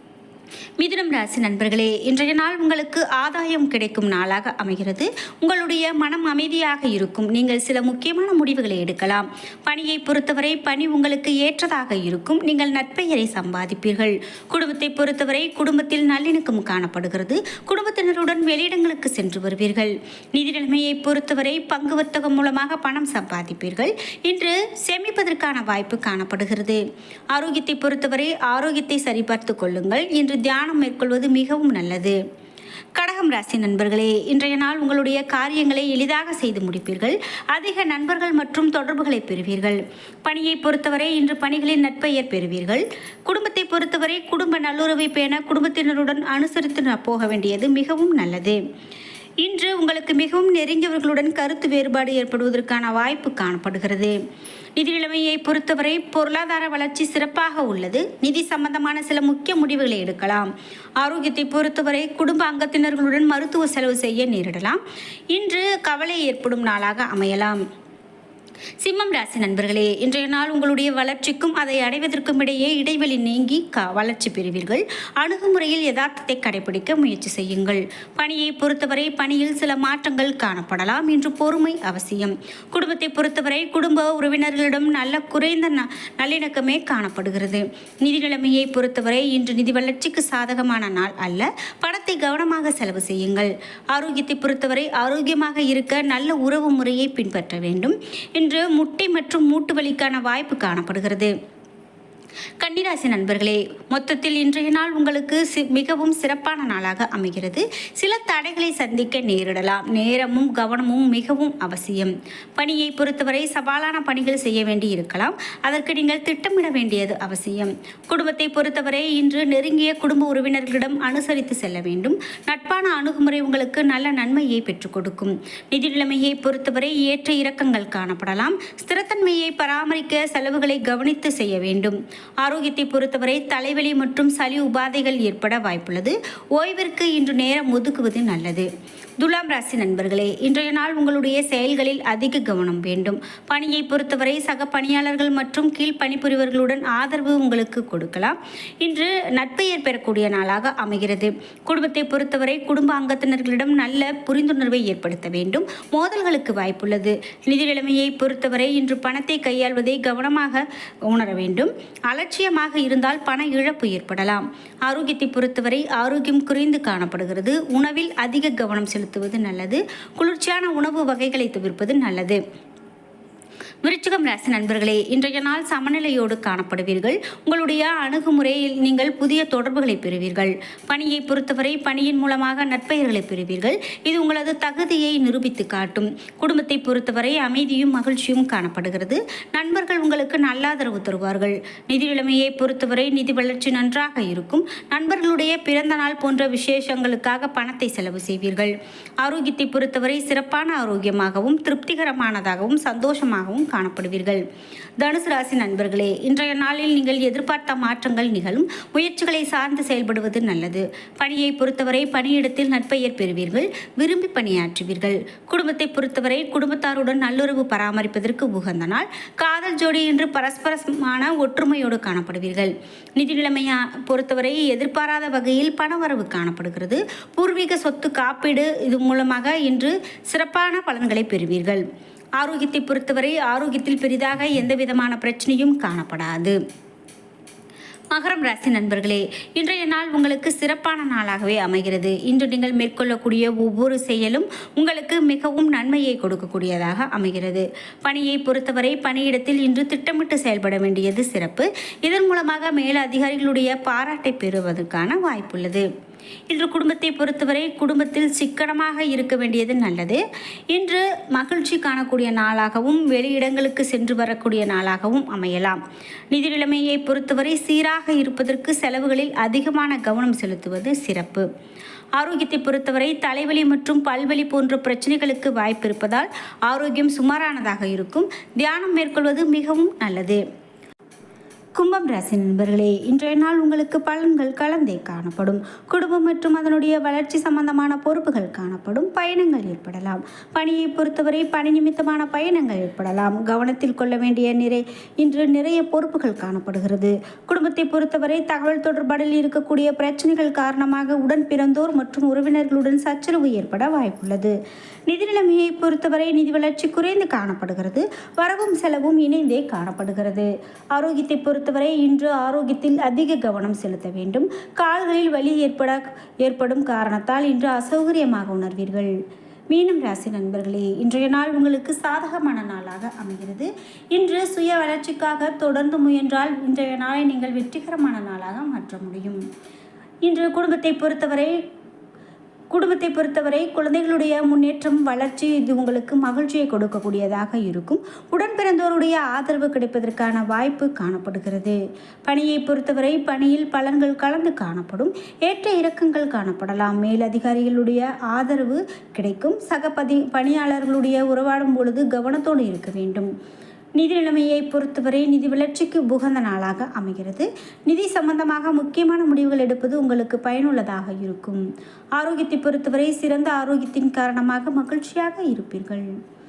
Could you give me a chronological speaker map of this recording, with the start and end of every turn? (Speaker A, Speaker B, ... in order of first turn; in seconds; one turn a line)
Speaker A: 0.8-26.8
Speaker A: 27.3-32.2
Speaker A: 33.0-48.6
Speaker A: 49.4-54.1
Speaker A: 54.8-67.6
Speaker A: 68.8-101.3
Speaker A: 102.6-138.7
Speaker A: 139.2-172.4
Speaker A: 173.8-204.4
Speaker A: 205.0-231.8
Speaker A: 232.4-236.6
Speaker A: 238.1-255.9
Speaker A: 256.5-265.8
Speaker A: 266.3-271.5
Speaker A: 272.2-280.4
Speaker A: 281.8-304.6
Speaker A: 305.1-319.1
Speaker A: 319.7-329.4
Speaker A: 330.2-331.6
Speaker A: 332.7-353.3
Speaker A: 354.0-361.6
Speaker A: 362.2-366.1